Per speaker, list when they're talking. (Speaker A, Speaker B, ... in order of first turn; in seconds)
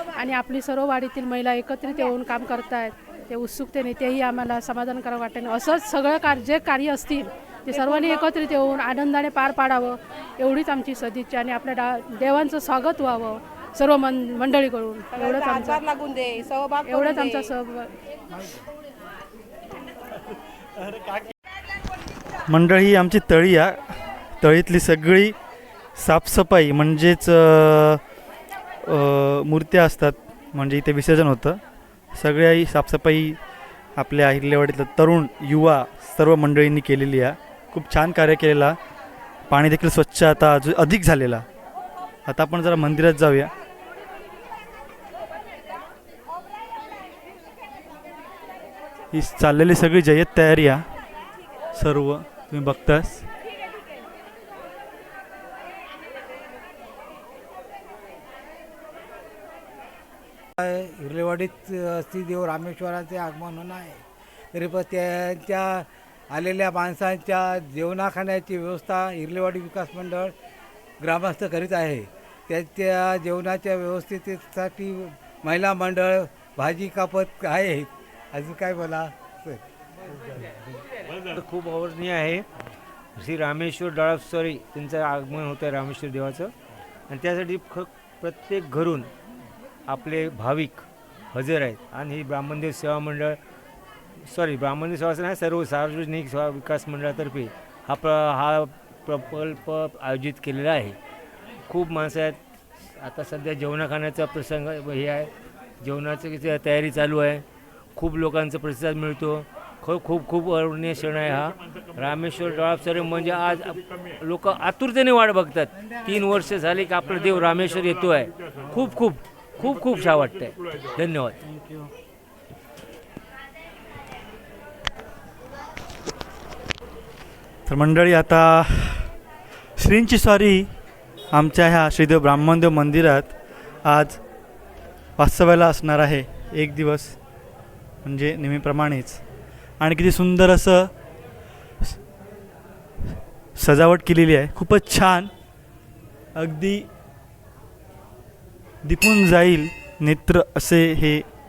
Speaker A: 0.2-15.9, 16.8-17.9
Speaker B: 7.7-8.2, 15.1-17.5
Speaker C: 22.5-23.8, 24.4-25.4, 26.0-28.0, 28.8-31.6, 32.1-33.4, 34.0-38.8, 39.5-41.5, 42.3-43.5, 49.1-50.8, 51.8-53.3, 121.4-121.9, 127.7-129.1, 129.8-130.7, 131.3-134.2, 135.2-137.2, 138.0-139.2, 139.8-140.9, 143.6-145.3, 146.4-146.9, 148.8-151.3
Speaker D: 60.6-70.3, 71.0-79.6, 80.3-80.6
Speaker E: 81.3-82.5, 83.2-86.5, 87.1-89.1, 89.9-93.4, 94.2-101.0, 101.7-102.4, 103.0-107.4, 108.0-121.4